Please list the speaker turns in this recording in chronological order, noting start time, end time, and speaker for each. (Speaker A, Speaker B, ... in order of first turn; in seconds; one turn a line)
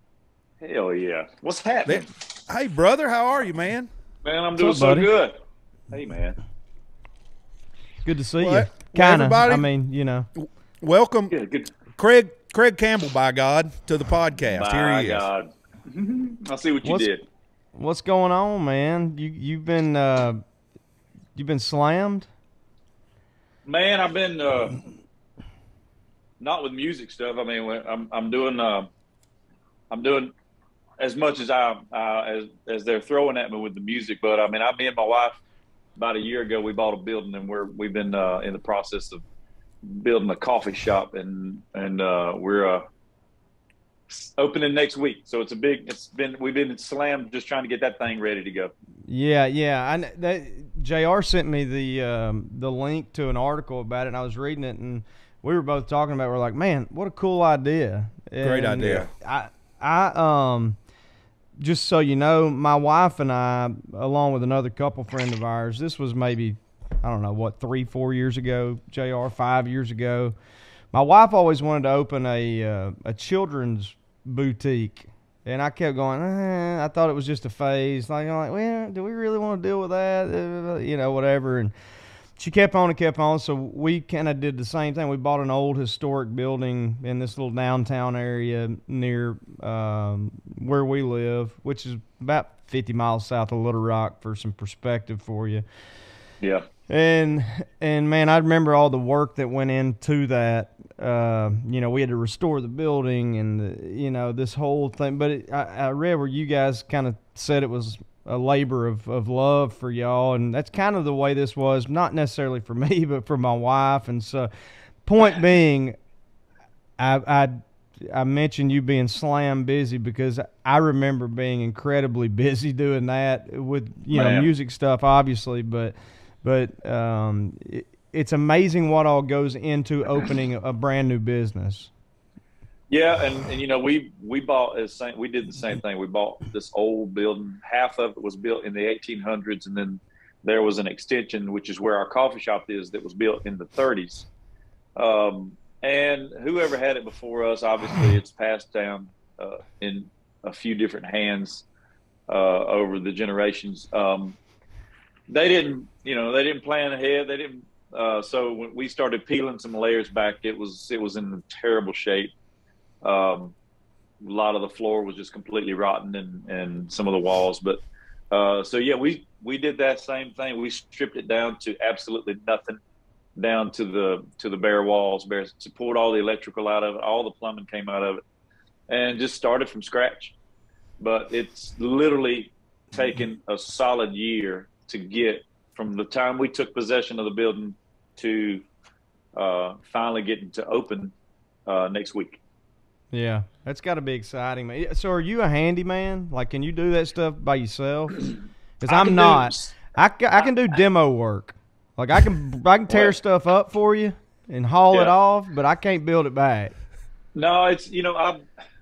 Speaker A: 0.6-2.1
Speaker B: 1.9-3.9
Speaker A: 4.2-5.4
Speaker C: 4.6-5.1
Speaker A: 5.9-6.4
Speaker C: 8.0-10.3
Speaker B: 8.4-9.7
Speaker B: 10.4-11.4
Speaker A: 11.3-11.7
Speaker B: 11.9-15.3
Speaker A: 14.5-17.2
Speaker C: 16.8-17.1
Speaker C: 17.7-20.4
Speaker C: 21.4-22.3
Speaker A: 23.6-24.8
Speaker A: 26.4-28.9
Speaker A: 29.9-30.3
Speaker A: 31.0-35.4
Speaker A: 36.0-39.2
Speaker A: 39.8-42.8
Speaker A: 44.1-48.7
Speaker C: 49.1-60.8
Speaker B: 58.4-59.1
Speaker C: 61.6-70.3
Speaker C: 70.9-81.7
Speaker C: 82.4-95.6
Speaker A: 96.4-96.6
Speaker C: 96.9-114.5
Speaker C: 115.0-116.0
Speaker C: 117.0-131.9
Speaker A: 124.1-124.5
Speaker A: 132.9-144.3
Speaker A: 144.9-151.6
Speaker A: 152.3-154.4
Speaker A: 155.3-162.3
Speaker A: 163.0-163.5
Speaker A: 164.2-172.8
Speaker A: 173.4-178.2
Speaker A: 178.9-180.3
Speaker A: 181.0-188.6
Speaker A: 189.3-191.1
Speaker A: 191.7-192.4
Speaker C: 193.1-198.2
Speaker C: 198.8-206.7
Speaker A: 198.9-199.9
Speaker A: 202.9-203.1
Speaker A: 207.3-208.4